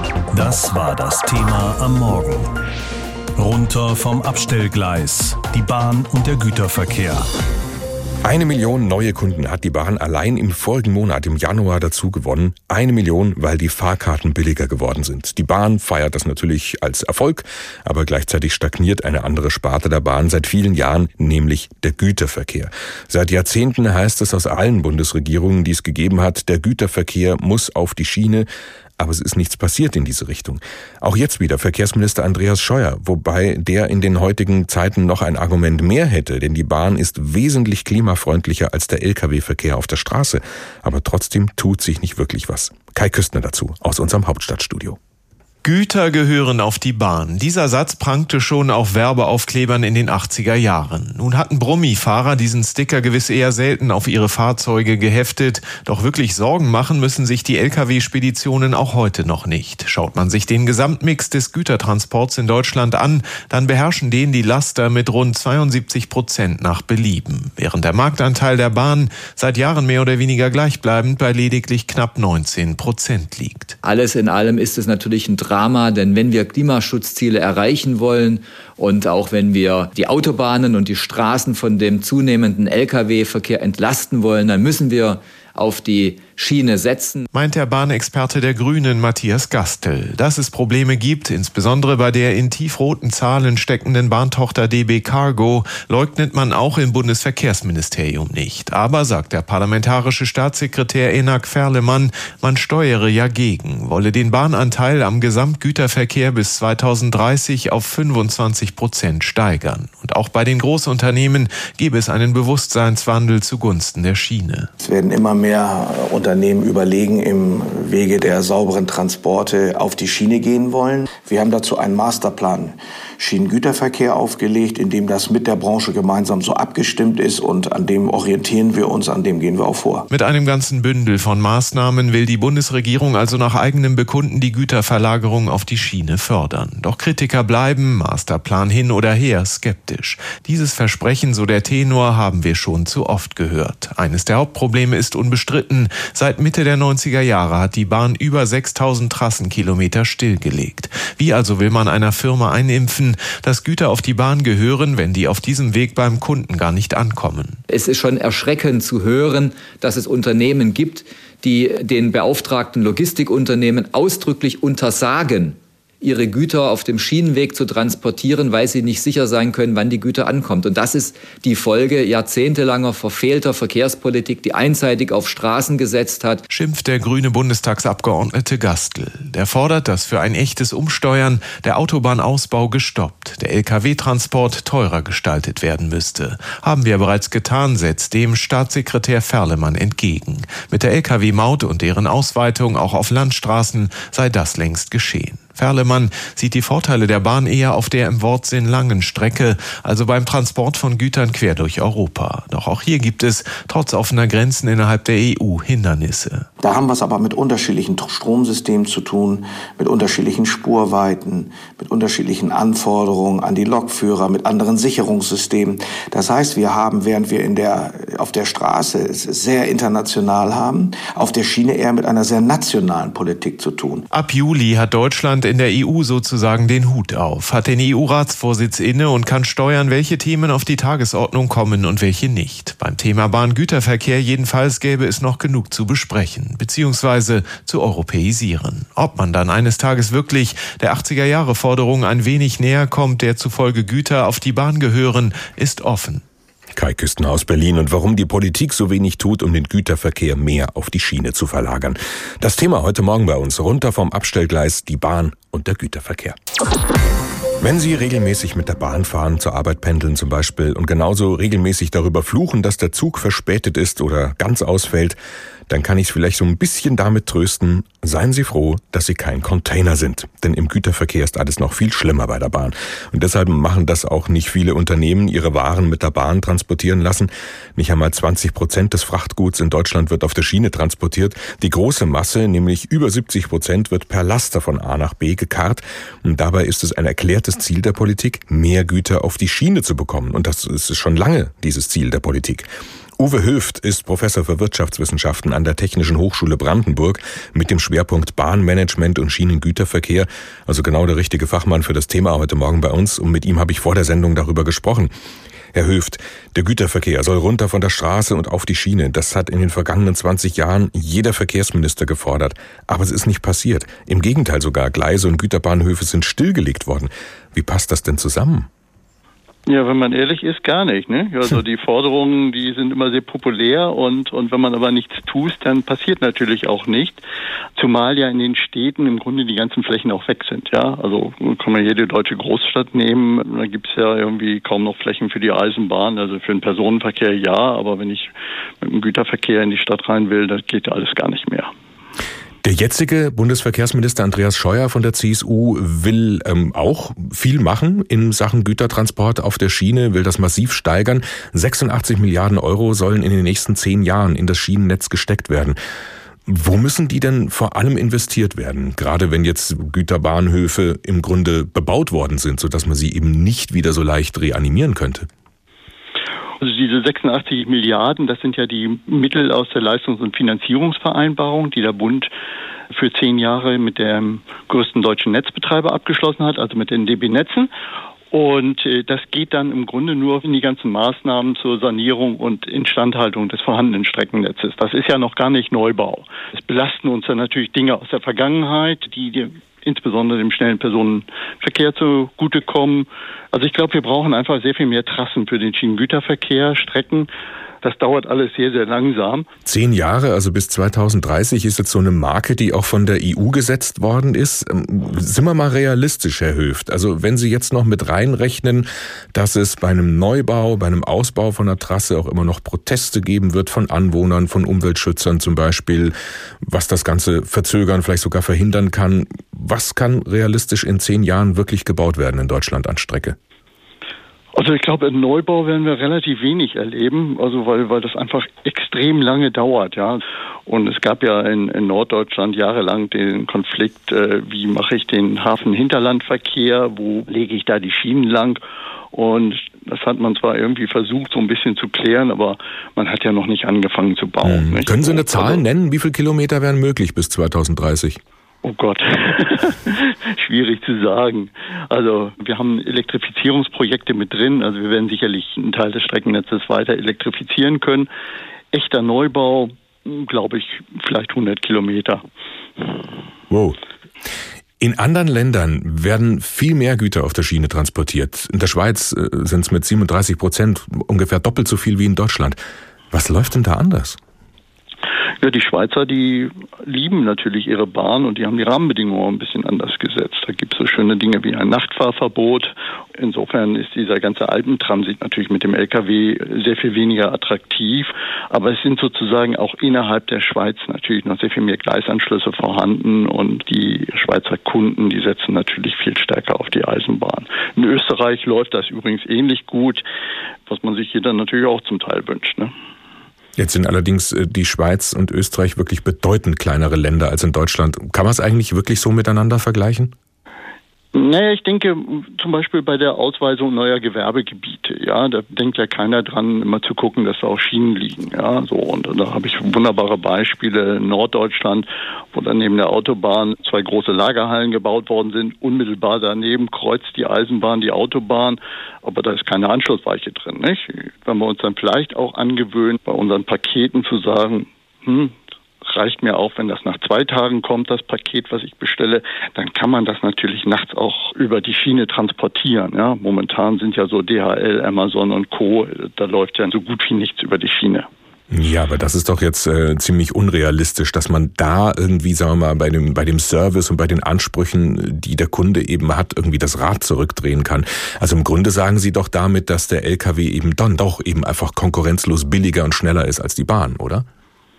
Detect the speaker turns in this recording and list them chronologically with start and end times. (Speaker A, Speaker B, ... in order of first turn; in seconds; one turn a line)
Speaker A: 0.3-2.5
Speaker A: 3.4-7.3
Speaker B: 8.2-28.5
Speaker B: 29.0-45.0
Speaker C: 45.6-73.8
Speaker D: 73.8-87.3
Speaker C: 87.3-114.7
Speaker E: 114.8-130.1
Speaker C: 130.1-157.6
Speaker D: 157.7-176.4
Speaker C: 176.5-206.5
Speaker E: 206.6-224.1
Speaker C: 224.1-246.2
Speaker B: 246.7-256.4
Speaker B: 257.6-265.1
Speaker B: 265.7-292.7
Speaker B: 293.2-305.1
Speaker B: 305.7-318.7
Speaker F: 319.7-327.2
Speaker F: 327.8-341.7
Speaker B: 342.6-355.8
Speaker B: 356.5-365.3
Speaker F: 366.6-372.3
Speaker F: 372.9-377.7
Speaker F: 378.3-397.3
Speaker F: 397.8-399.5
Speaker B: 399.6-423.4
Speaker F: 424.5-438.6
Speaker F: 439.1-445.6
Speaker B: 444.4-448.2
Speaker F: 448.6-458.1
Speaker F: 458.7-462.2
Speaker B: 463.5-463.8
Speaker B: 464.8-472.6
Speaker B: 473.1-474.2
Speaker F: 475.4-500.0
Speaker F: 500.7-502.7
Speaker B: 503.6-510.1
Speaker F: 511.1-548.1
Speaker B: 548.5-564.2